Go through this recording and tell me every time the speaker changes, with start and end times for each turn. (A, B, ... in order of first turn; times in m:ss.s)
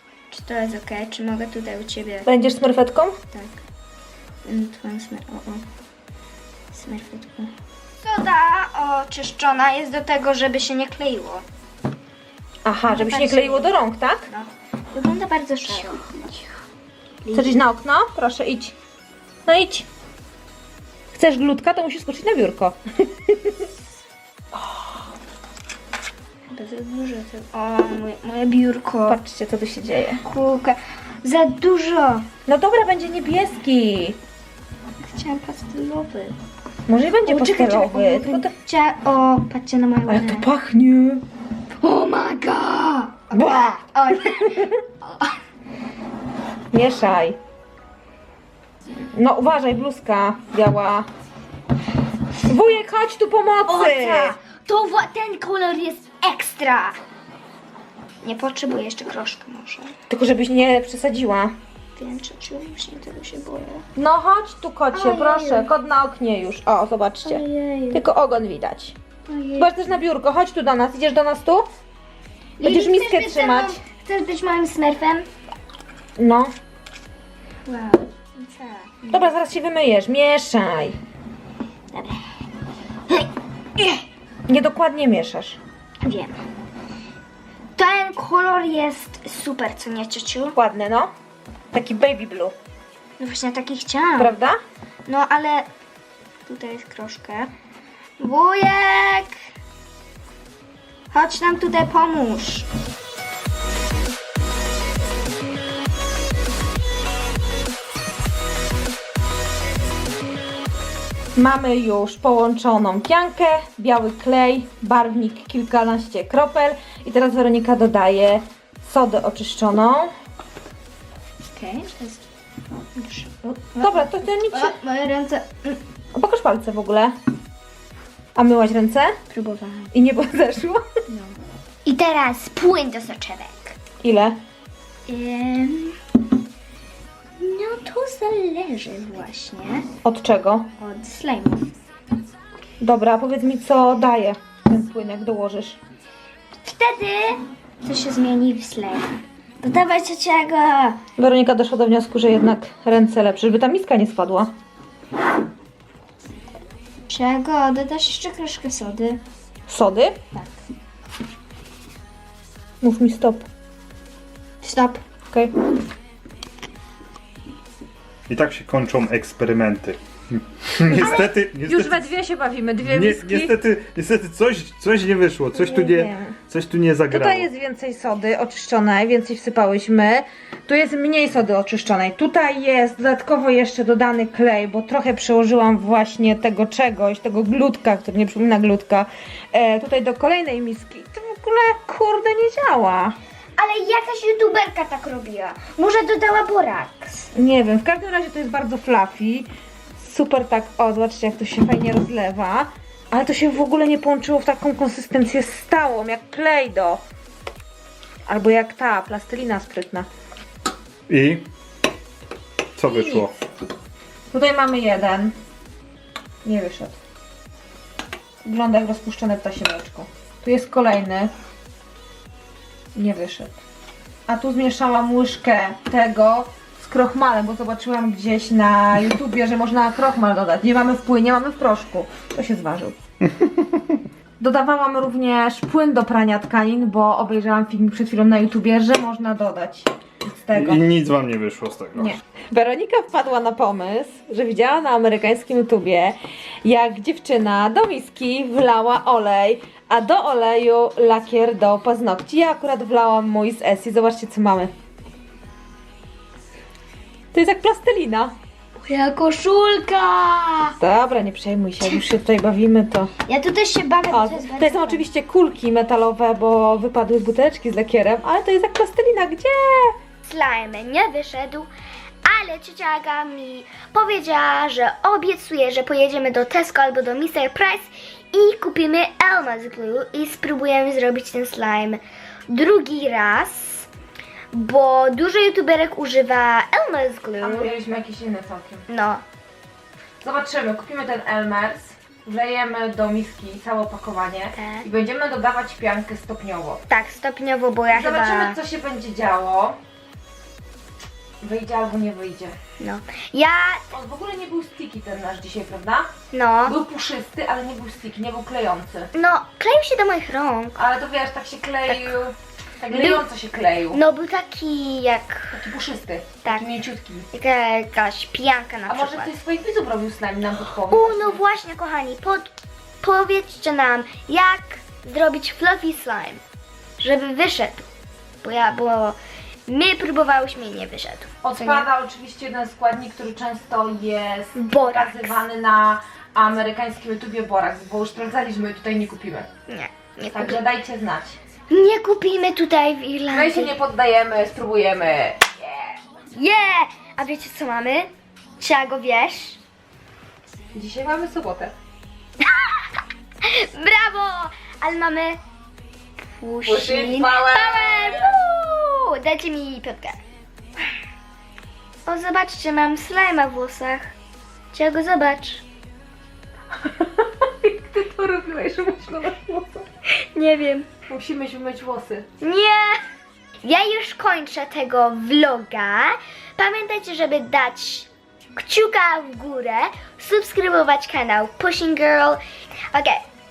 0:00.3-0:02.3 A
0:02.2-0:03.2 B
0:03.3-0:03.6 A
0:04.4-0:05.6 A
0:06.7-0:07.5 A
0:08.0-0:11.4 A
0:12.6-0:14.3 B
0:12.9-0:13.7 A
0:14.3-0:16.4 A
0:17.2-0:17.6 A
0:17.3-0:18.7 B
0:19.4-0:19.9 B
0:21.1-0:23.7 B
0:26.5-0:29.2 A
0:29.1-0:30.2 B
0:30.2-0:32.3 A
0:32.5-0:34.2 B
0:35.0-0:36.4 A
0:36.9-0:38.5 B
0:37.2-0:40.5 A
0:40.1-0:41.2 B
0:41.8-0:45.3 A
0:43.3-0:43.8 B
0:44.4-0:44.7 B
0:46.7-0:47.4 B
0:49.1-0:51.1 B
0:52.4-0:54.3 B
0:53.7-0:57.0 A
0:58.2-0:59.9 A
1:00.1-1:01.5 B
1:02.0-1:03.8 A
1:04.0-1:08.9 B
1:04.9-1:05.7 A
1:07.2-1:08.0 A
1:09.3-1:09.8 A
1:09.6-1:11.7 B
1:12.6-1:15.2 A
1:12.6-1:13.8 B
1:16.2-1:16.5 B
1:17.6-1:19.3 A
1:19.1-1:21.0 B
1:21.9-1:22.2 A
1:23.1-1:24.0 A
1:24.5-1:25.6 B
1:26.0-1:26.4 A
1:27.8-1:30.6 A
1:30.5-1:31.1 B
1:31.7-1:32.5 B
1:33.2-1:34.3 A
1:34.2-1:34.6 B
1:35.0-1:35.7 A
1:36.5-1:37.5 A
1:38.2-1:39.3 A
1:41.1-1:42.7 A
1:51.4-2:00.1 B
2:01.5-2:02.2 A
2:02.9-2:05.8 A
2:03.8-2:04.8 B
2:06.1-2:07.1 B
2:08.3-2:09.1 B
2:09.3-2:09.9 A
2:09.9-2:10.8 B
2:11.1-2:13.8 A
2:14.0-2:14.4 B
2:15.1-2:16.0 A
2:17.4-2:19.9 A
2:20.0-2:20.7 B
2:20.8-2:21.7 A
2:22.8-2:25.8 B
2:26.6-2:31.0 A
2:31.2-2:34.5 B
2:37.1-2:39.2 A
2:39.7-2:40.2 B
2:42.8-2:43.4 B
2:44.6-2:45.0 A
2:48.3-2:52.0 C
2:50.9-2:53.6 B
2:52.8-2:57.5 C
2:55.6-2:56.4 B
2:57.1-3:13.2 B
3:13.6-3:17.3 A
3:17.3-3:27.0 B
3:28.2-3:30.1 B
3:31.1-3:31.5 C
3:32.8-3:33.3 C
3:32.9-3:33.3 B
3:34.3-3:35.3 B
3:36.4-3:37.0 B
3:38.4-3:41.3 B
3:42.9-3:43.6 B
3:44.3-3:53.0 B
3:54.4-4:00.9 B
4:00.5-4:02.1 C
4:02.0-4:14.7 B
4:17.3-4:18.3 B
4:18.8-4:20.7 A
4:20.8-4:23.1 B
4:23.2-4:25.0 A
4:24.1-4:29.9 B
4:30.2-4:31.7 A
4:32.2-4:43.9 A
4:44.5-4:47.7 A
4:47.4-4:48.8 B
4:48.9-4:49.2 A
4:50.2-4:56.8 B
4:54.5-4:54.9 A
4:56.9-4:58.6 A
4:57.9-4:59.8 B
5:01.4-5:02.6 B
5:02.8-5:03.8 A
5:03.9-5:06.1 B
5:06.3-5:06.8 A
5:06.6-5:09.1 B
5:09.1-5:10.8 A
5:10.8-5:14.0 B
5:11.9-5:12.1 A
5:12.9-5:13.2 A
5:13.9-5:15.6 A
5:15.5-5:17.3 B
5:17.3-5:19.3 A
5:18.9-5:21.4 B
5:20.9-5:26.4 A
5:27.0-5:27.8 A
5:28.4-5:31.9 A
5:31.4-5:39.5 B
5:34.5-5:35.4 A
5:39.7-5:40.6 A
5:40.3-5:41.4 B
5:41.7-5:43.7 A
5:43.3-5:46.0 B
5:46.3-5:49.6 A
5:50.7-5:51.7 B
5:52.4-5:52.9 A
5:53.4-5:55.4 A
5:56.4-6:00.2 A
5:56.6-5:58.4 B
6:02.0-6:04.1 A
6:04.7-6:05.6 A
6:06.8-6:09.8 B
6:10.1-6:10.9 A
6:11.1-6:12.2 B
6:12.4-6:13.0 A
6:13.6-6:22.4 A
6:22.9-6:23.2 A